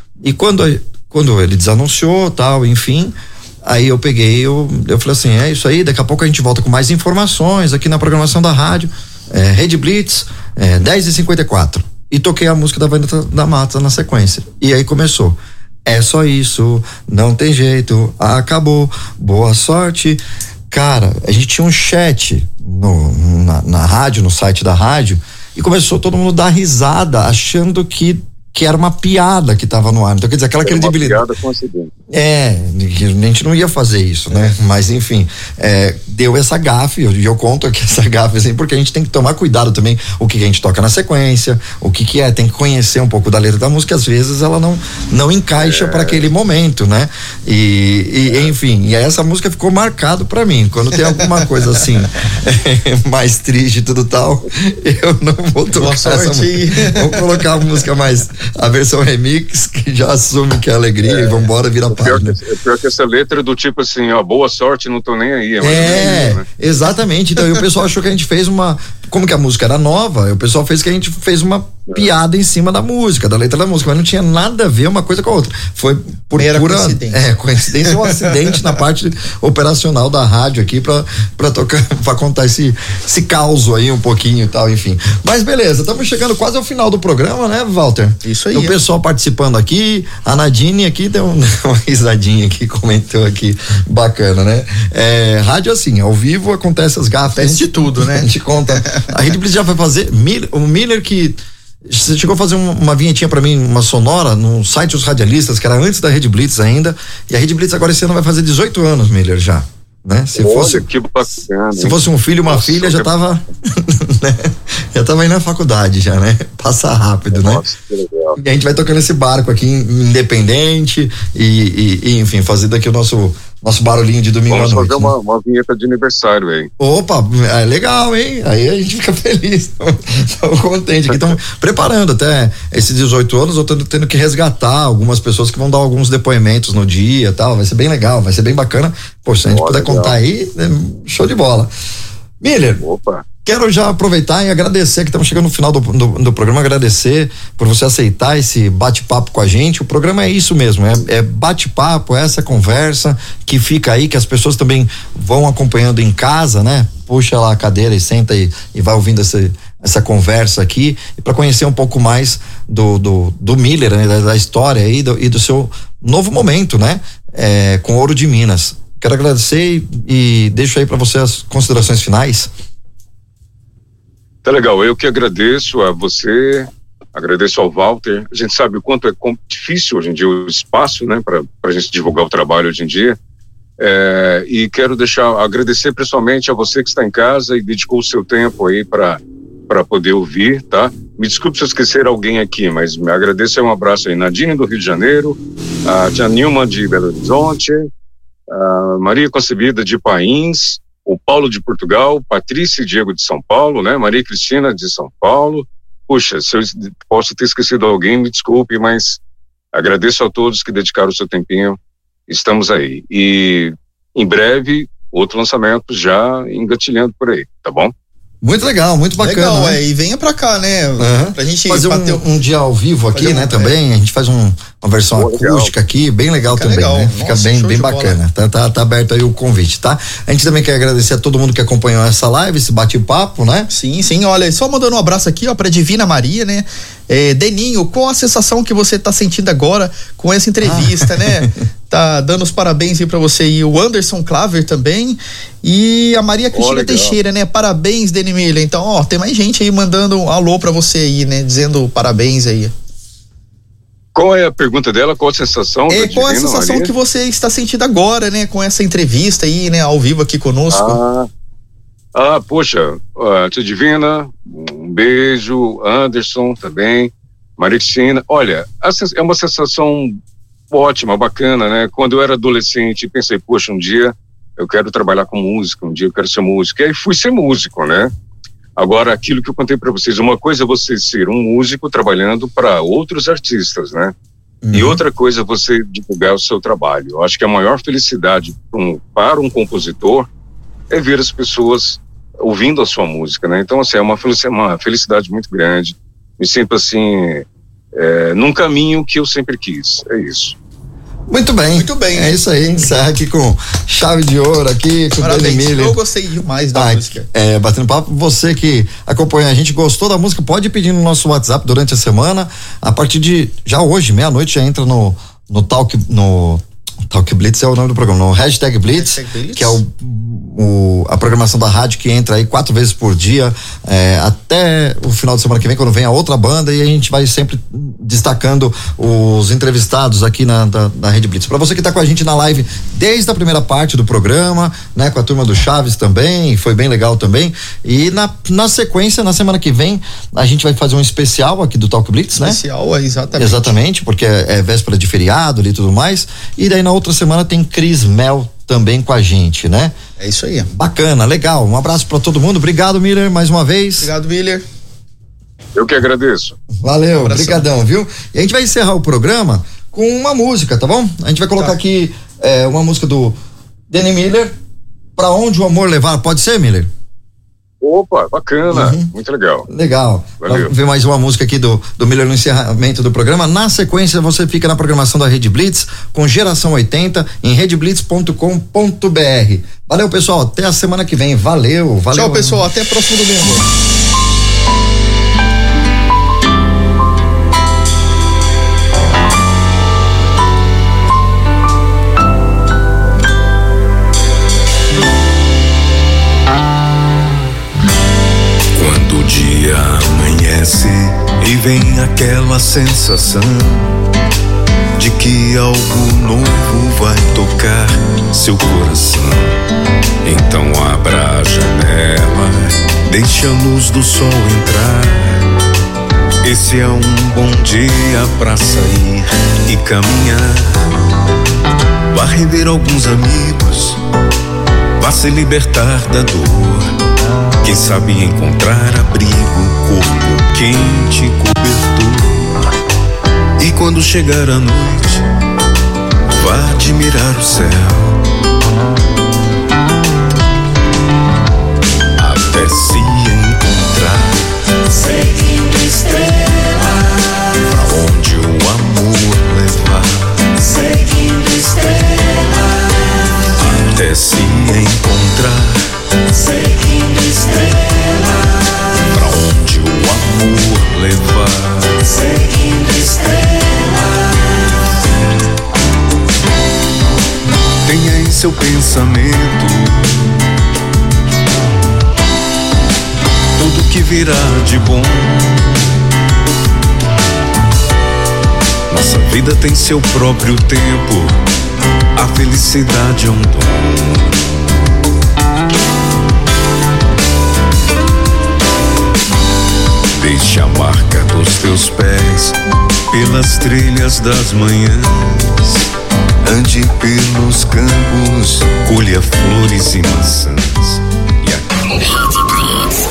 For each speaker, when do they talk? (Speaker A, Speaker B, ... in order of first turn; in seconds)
Speaker A: 0.2-31.2, 32.1-62.4, 65.6-110.9, 111.7-117.6, 118.3-125.1, 126.8-141.7, 142.4-142.8, 143.4-172.5, 218.4-219.8, 221.0-233.7, 240.6-241.5, 284.6-285.0, 301.3-306.0, 306.7-342.6, 343.4-349.9, 350.7-354.1, 356.8-363.4, 363.9-364.5, 365.1-366.9, 368.7-369.1, 369.7-382.7
Speaker B: 30.6-31.9, 45.6-46.2, 61.0-66.4, 110.4-113.3, 117.3-118.4, 124.5-126.7, 131.1-131.4, 139.5-140.1, 142.8-143.2, 174.4-183.2, 183.8-197.9, 198.5-209.2, 209.7-217.9, 225.2-225.7, 246.5-247.1, 254.1-256.9, 260.7-261.3, 262.1-270.2, 270.7-278.1, 278.8-284.1, 284.7-290.3, 290.9-300.6, 355.8-356.6, 367.8-369.7, 370.4-370.7
Speaker C: 55.8-57.5, 76.4-77.3, 77.8-78.3, 88.2-88.8, 97.3-98.3, 98.8-99.1, 219.2-222.2, 223.1-223.7, 226.5-228.2, 233.7-252.7, 255.9-261.0, 301.7-302.4, 305.2-307.3, 318.9-319.8, 342.3-343.8, 350.2-350.7, 354.0-354.6, 357.2-357.6, 382.1-383.7
Speaker D: 398.7-403.9, 405.0-409.6, 410.2-412.5, 413.1-415.4, 416.4-420.9, 422.1-424.0, 425.0-426.9, 427.6-432.6, 433.6-435.3, 436.3-438.2, 442.2-446.9, 447.6-452.6, 453.6-458.4, 459.0-464.1, 467.8-470.3, 473.6-475.8, 478.9-481.4, 482.2-484.4, 490.2-492.6, 493.1-495.8, 496.4-502.5